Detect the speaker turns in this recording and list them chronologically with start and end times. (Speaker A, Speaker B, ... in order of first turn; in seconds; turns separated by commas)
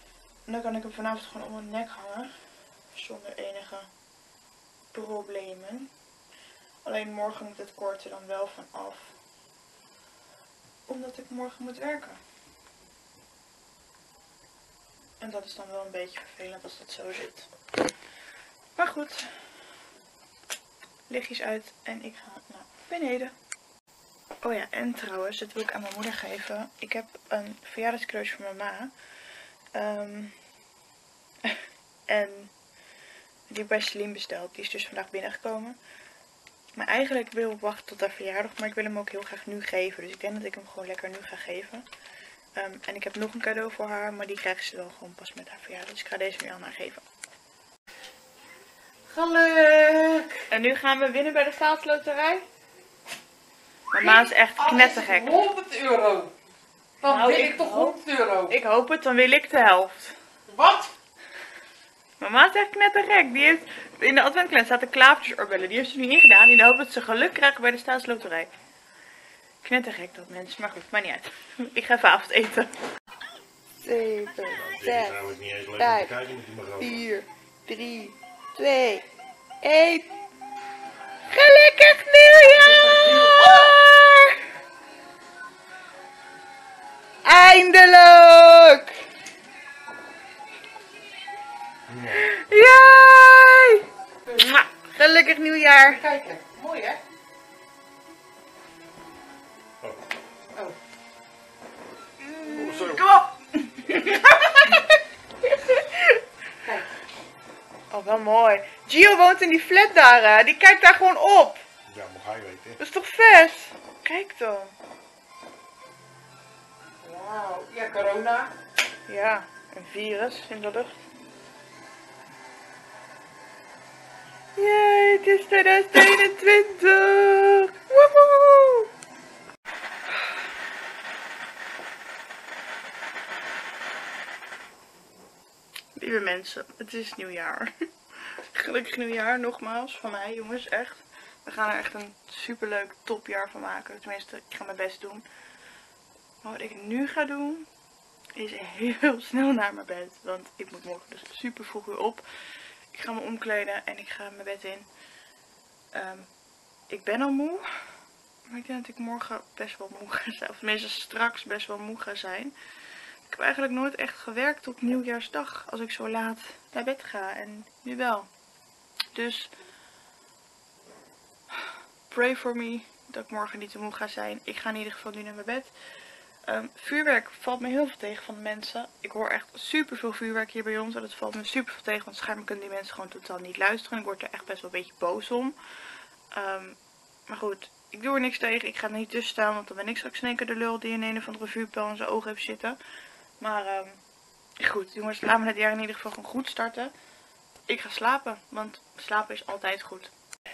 Speaker A: 0.5-2.3, Speaker A: 2.9-3.9, Speaker A: 4.9-5.9, Speaker A: 6.8-9.2, Speaker A: 10.9-12.2, Speaker A: 15.2-17.5, Speaker A: 18.8-19.4, Speaker A: 21.1-23.3, Speaker A: 24.4-28.9, Speaker A: 29.7-30.4, Speaker A: 31.4-32.5, Speaker A: 33.5-35.8, Speaker A: 36.7-41.9, Speaker A: 42.5-47.0, Speaker B: 49.1-50.4, Speaker A: 50.5-52.4, Speaker A: 53.9-55.4, Speaker B: 54.0-56.3, Speaker B: 57.0-58.5, Speaker A: 57.0-60.2, Speaker B: 60.5-60.9, Speaker A: 62.2-68.5, Speaker A: 69.6-72.8, Speaker A: 73.8-79.1, Speaker C: 74.6-76.8, Speaker A: 79.6-80.1, Speaker A: 81.3-84.5, Speaker B: 82.8-83.2, Speaker A: 87.2-89.0, Speaker C: 91.9-92.4, Speaker A: 92.0-96.0, Speaker B: 95.8-97.0, Speaker A: 102.2-106.3, Speaker C: 102.5-103.0, Speaker B: 104.0-104.8, Speaker B: 106.6-106.9, Speaker A: 107.9-111.6, Speaker C: 111.9-112.8, Speaker A: 112.8-114.7, Speaker B: 117.0-118.5, Speaker A: 119.0-121.0, Speaker A: 124.5-128.9, Speaker A: 135.9-137.7, Speaker A: 138.3-145.2, Speaker A: 146.4-147.7, Speaker A: 148.3-152.2, Speaker A: 152.9-154.9, Speaker A: 155.9-156.3, Speaker A: 156.9-157.7, Speaker A: 158.4-162.5, Speaker A: 163.3-168.3, Speaker A: 169.1-169.5, Speaker A: 172.1-175.7, Speaker A: 176.4-185.6, Speaker A: 186.3-192.8, Speaker A: 193.4-194.0, Speaker A: 194.6-196.9, Speaker A: 197.7-200.1